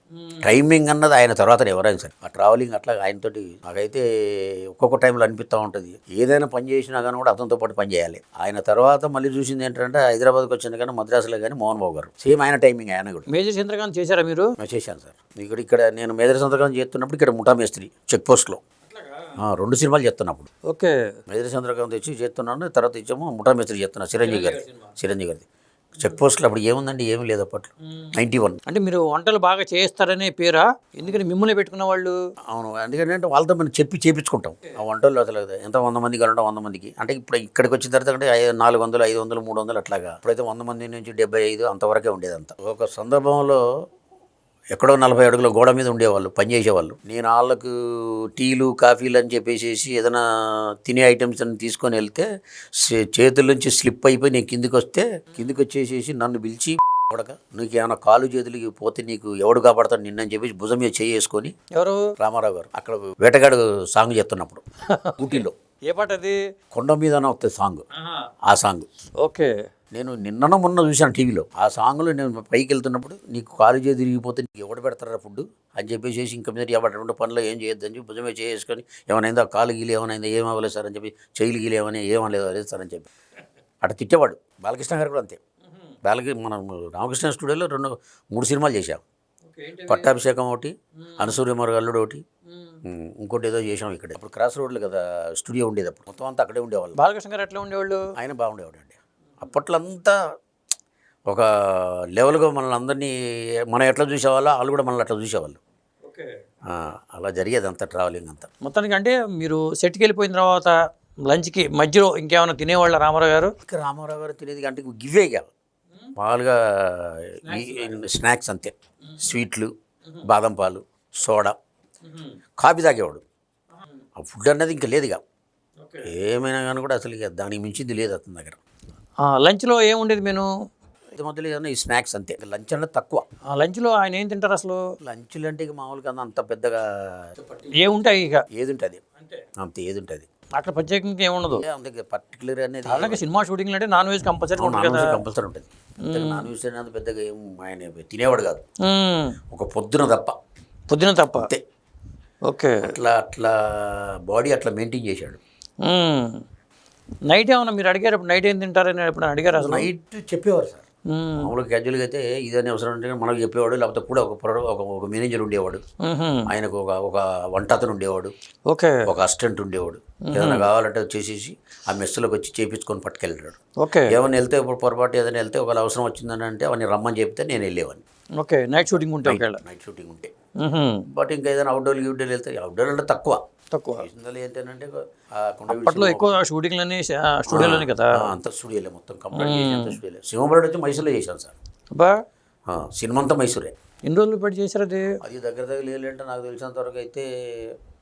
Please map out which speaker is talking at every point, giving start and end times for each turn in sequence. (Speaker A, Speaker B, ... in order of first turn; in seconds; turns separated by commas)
Speaker A: 0.2-0.5, Speaker B: 0.4-13.3, Speaker A: 13.3-14.5, Speaker B: 14.6-18.6, Speaker A: 18.9-19.4, Speaker B: 19.4-20.5, Speaker A: 20.7-20.9, Speaker B: 21.3-25.5, Speaker A: 24.2-24.9, Speaker B: 26.0-28.6, Speaker A: 28.7-32.1, Speaker B: 32.5-43.6, Speaker B: 44.7-61.5, Speaker A: 61.7-62.1, Speaker B: 62.2-64.6, Speaker A: 64.9-66.4, Speaker B: 65.2-65.6, Speaker B: 66.7-67.8, Speaker A: 68.0-68.3, Speaker B: 68.5-68.9, Speaker A: 69.2-69.5, Speaker B: 69.9-83.1, Speaker B: 83.8-85.4, Speaker A: 85.7-85.9, Speaker B: 86.0-89.0, Speaker A: 89.5-90.1, Speaker B: 89.9-92.2, Speaker A: 91.0-91.4, Speaker A: 92.5-92.8, Speaker B: 92.8-97.0, Speaker A: 97.0-98.1, Speaker B: 98.2-100.2, Speaker B: 101.3-103.2, Speaker B: 103.7-105.6, Speaker A: 106.0-106.3, Speaker B: 106.7-108.5, Speaker A: 108.6-110.7, Speaker A: 111.3-113.5, Speaker B: 113.6-115.5, Speaker B: 116.2-119.7, Speaker A: 117.5-118.0, Speaker A: 119.0-119.3, Speaker B: 120.2-121.6, Speaker A: 122.1-122.3, Speaker B: 122.6-123.2, Speaker B: 124.2-125.2, Speaker A: 125.8-126.1, Speaker B: 126.0-128.6, Speaker A: 129.2-130.5, Speaker B: 131.1-133.2, Speaker A: 133.5-134.8, Speaker B: 135.0-137.6, Speaker A: 137.7-138.4, Speaker B: 138.5-139.0, Speaker A: 139.2-139.4, Speaker B: 139.6-140.3, Speaker A: 140.6-141.7, Speaker B: 141.6-143.2, Speaker A: 142.9-145.2, Speaker B: 144.6-148.6, Speaker A: 146.1-146.5, Speaker A: 148.8-149.3, Speaker B: 149.5-150.4, Speaker A: 150.9-151.5, Speaker A: 152.5-152.8, Speaker B: 152.8-155.4, Speaker A: 155.8-156.4, Speaker A: 157.3-159.9, Speaker B: 159.6-160.9, Speaker A: 161.1-161.5, Speaker B: 161.4-165.8, Speaker A: 166.0-166.5, Speaker B: 166.5-168.3, Speaker A: 168.7-169.1, Speaker B: 169.1-178.0, Speaker A: 170.3-170.7, Speaker A: 173.8-174.2, Speaker A: 178.4-179.6, Speaker B: 179.2-180.3, Speaker A: 180.6-181.1, Speaker B: 181.1-183.4, Speaker A: 183.7-184.1, Speaker B: 184.0-186.4, Speaker A: 185.7-188.3, Speaker B: 187.5-191.5, Speaker A: 189.3-190.0, Speaker B: 192.7-193.7, Speaker A: 194.1-195.2, Speaker B: 195.2-197.8